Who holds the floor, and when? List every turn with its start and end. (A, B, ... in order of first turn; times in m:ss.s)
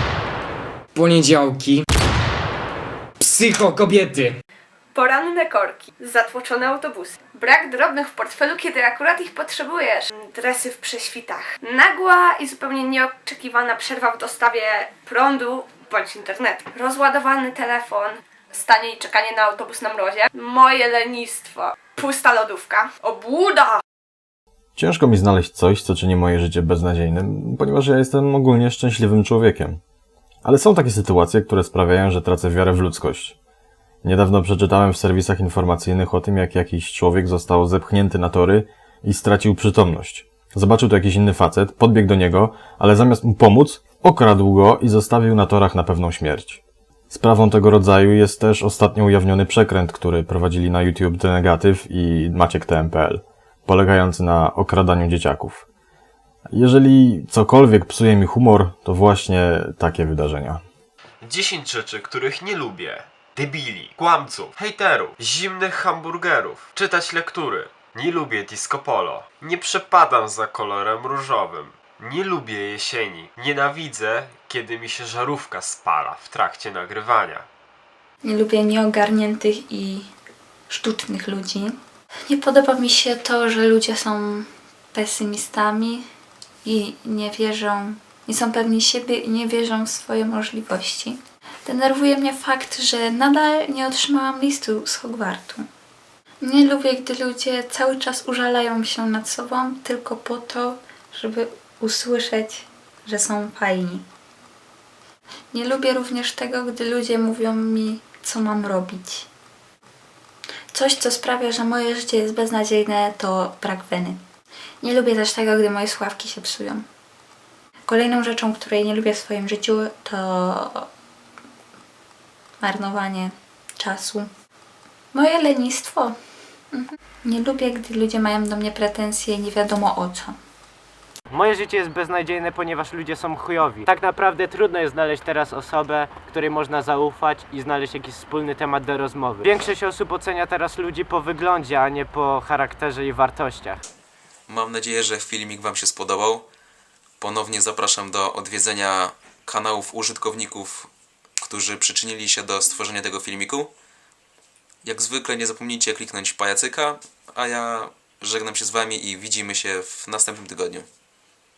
0:01.0-0:01.8 A
0:03.2-0:04.4 A
0:05.0-0:23.8 B
0:24.8-0:29.8 C
0:30.4-0:33.4 C
0:34.0-0:55.6 C
0:56.5-1:00.6 C
1:01.2-1:17.5 D
1:18.2-1:20.1 E
1:20.7-1:21.8 E
1:22.3-1:26.1 E
1:26.6-1:35.7 E
1:36.4-1:44.0 E
1:45.5-1:49.3 E
1:50.7-1:54.2 E
1:54.8-1:56.8 E
1:57.9-2:00.9 E
2:02.6-2:04.3 E
2:05.1-2:06.2 E
2:06.7-2:10.4 E
2:11.3-2:23.8 F
2:24.5-2:26.5 G
2:27.2-2:33.7 G
2:34.8-2:40.9 G